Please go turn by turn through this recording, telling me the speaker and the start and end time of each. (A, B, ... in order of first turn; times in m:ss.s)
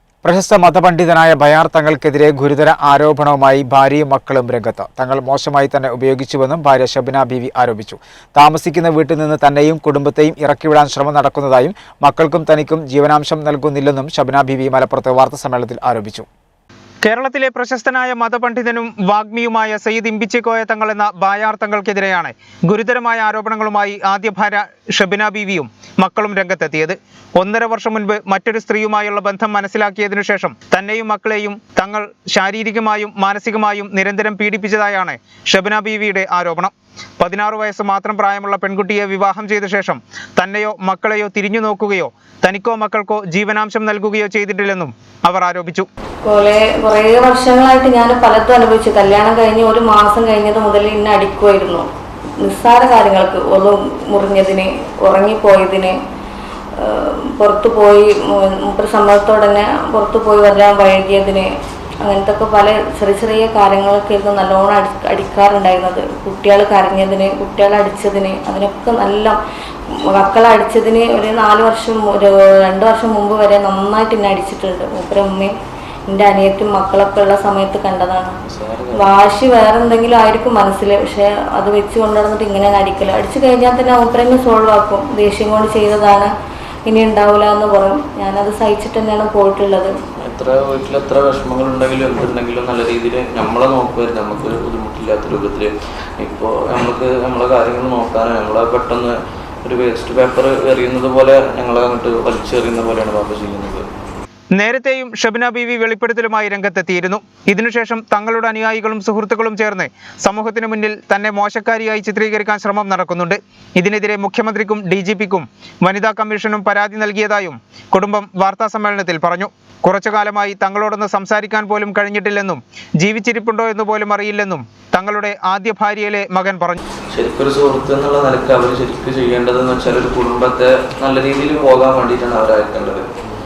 0:00.2-0:16.3 A
0:17.0-0:45.9 B
0:46.2-0:51.8 C
0:52.4-0:56.0 C
0:56.8-1:01.5 C
1:02.0-1:09.4 C
1:09.9-1:15.5 C
1:16.1-1:18.3 C
1:18.4-1:19.4 D
1:18.9-1:26.3 C
1:26.9-1:29.9 C
1:30.2-1:43.8 D
1:44.5-2:06.8 B
2:07.1-2:13.1 D